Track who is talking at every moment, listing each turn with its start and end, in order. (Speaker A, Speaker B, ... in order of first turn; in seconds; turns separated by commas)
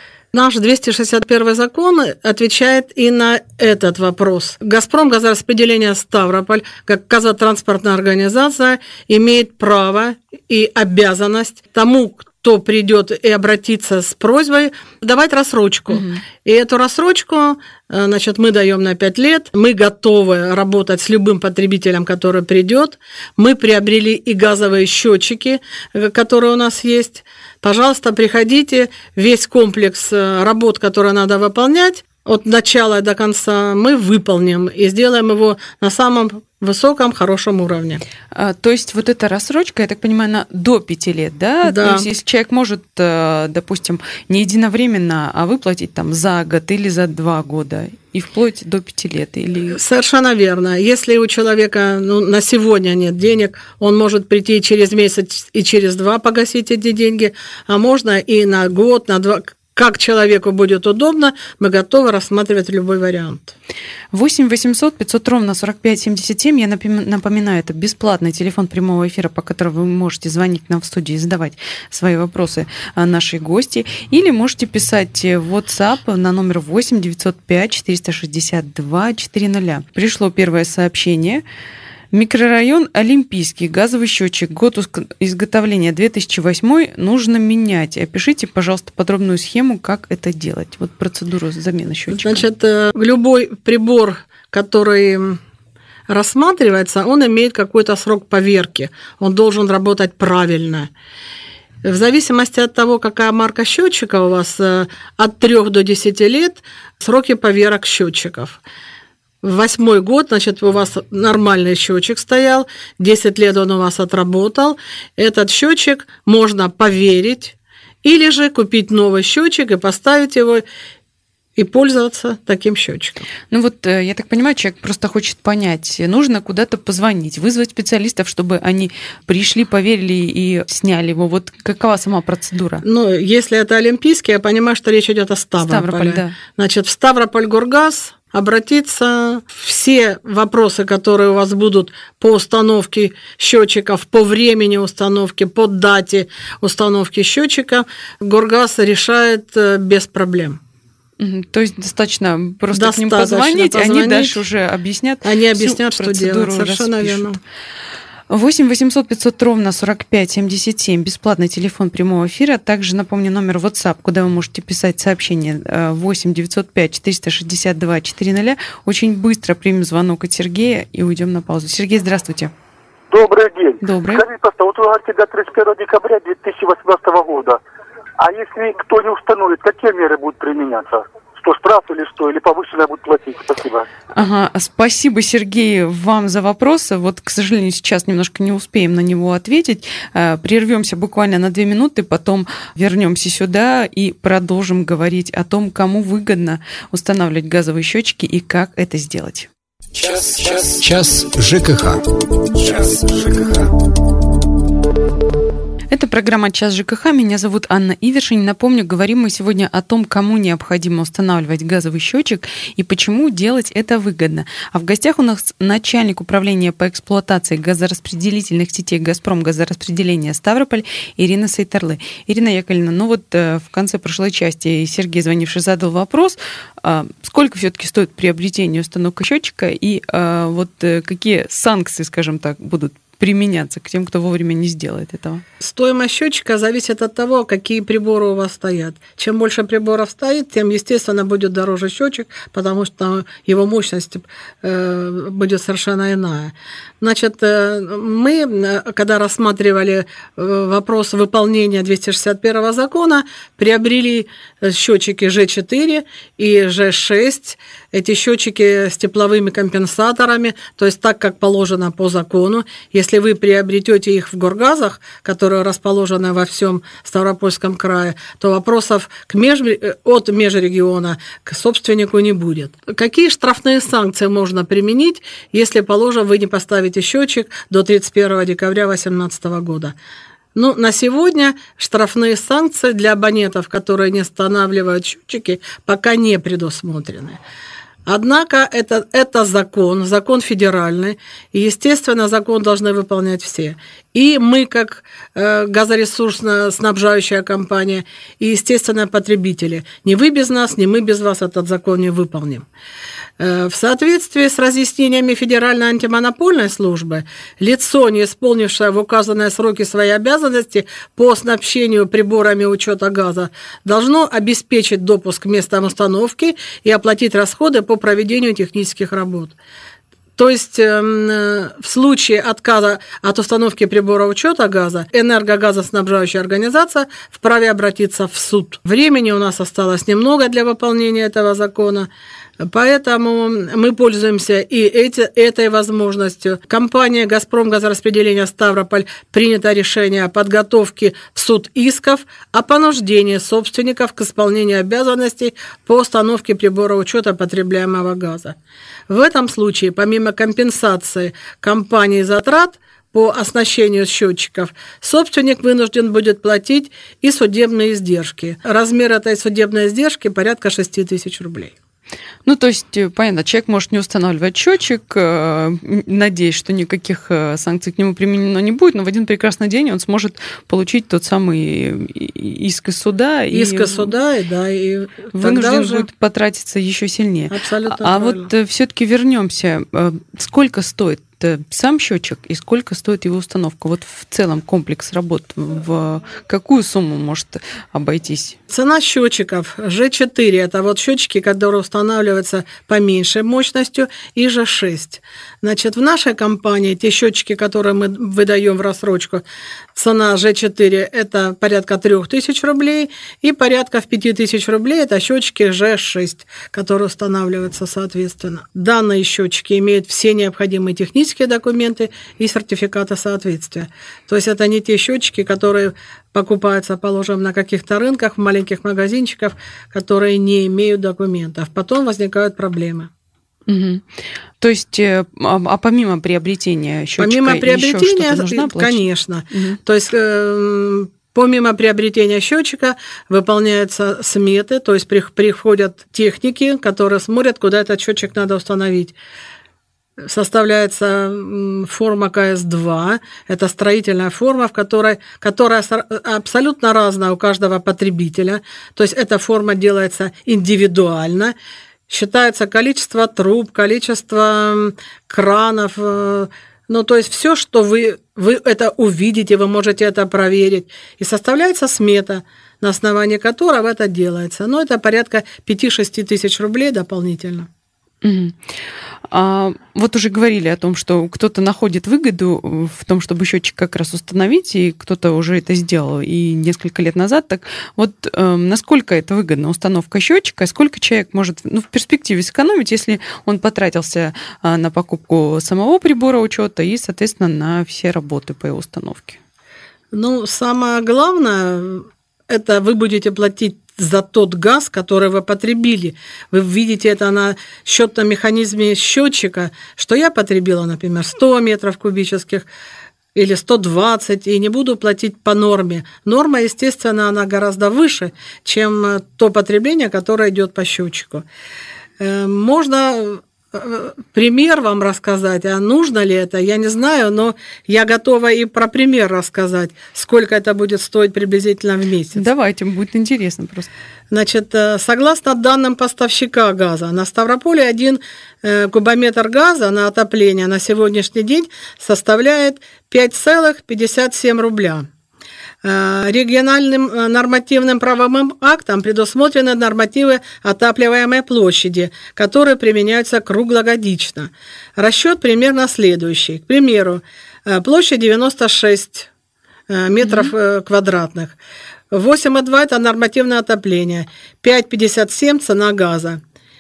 Speaker A: 0.3-38.0, Speaker B: 15.9-16.2, Speaker B: 38.3-49.8, Speaker A: 41.6-42.1, Speaker A: 49.7-63.5, Speaker B: 64.1-81.4, Speaker B: 82.1-92.4, Speaker A: 92.1-95.4, Speaker A: 96.1-100.9, Speaker A: 101.8-108.6, Speaker A: 109.4-120.6, Speaker A: 121.6-123.2, Speaker B: 123.5-132.8, Speaker A: 132.8-150.6, Speaker B: 135.6-136.3, Speaker B: 151.2-157.3, Speaker A: 152.7-154.4, Speaker A: 155.2-157.4, Speaker B: 158.3-172.5, Speaker C: 173.1-177.6, Speaker B: 173.8-174.2, Speaker C: 178.2-183.9, Speaker B: 184.1-199.5, Speaker D: 199.9-202.0, Speaker D: 203.0-203.6, Speaker B: 205.9-235.4, Speaker A: 235.6-279.9, Speaker A: 280.5-287.4, Speaker A: 288.1-302.6, Speaker A: 303.4-319.5, Speaker A: 320.4-332.1, Speaker A: 332.6-348.6, Speaker A: 349.1-361.7, Speaker B: 362.4-374.1, Speaker A: 373.5-376.1, Speaker B: 375.3-388.6, Speaker A: 377.5-378.5, Speaker A: 388.7-399.4, Speaker A: 399.9-423.1, Speaker B: 423.7-424.0, Speaker B: 424.6-429.8, Speaker A: 427.2-439.1, Speaker A: 440.2-451.5, Speaker A: 452.1-467.7, Speaker B: 468.2-468.6, Speaker B: 469.3-489.4, Speaker A: 490.1-502.7, Speaker A: 503.3-511.4, Speaker A: 512.2-522.4, Speaker B: 522.3-523.9, Speaker A: 524.3-535.0, Speaker A: 535.8-549.3, Speaker A: 549.9-551.5, Speaker B: 550.2-550.5, Speaker A: 552.1-556.4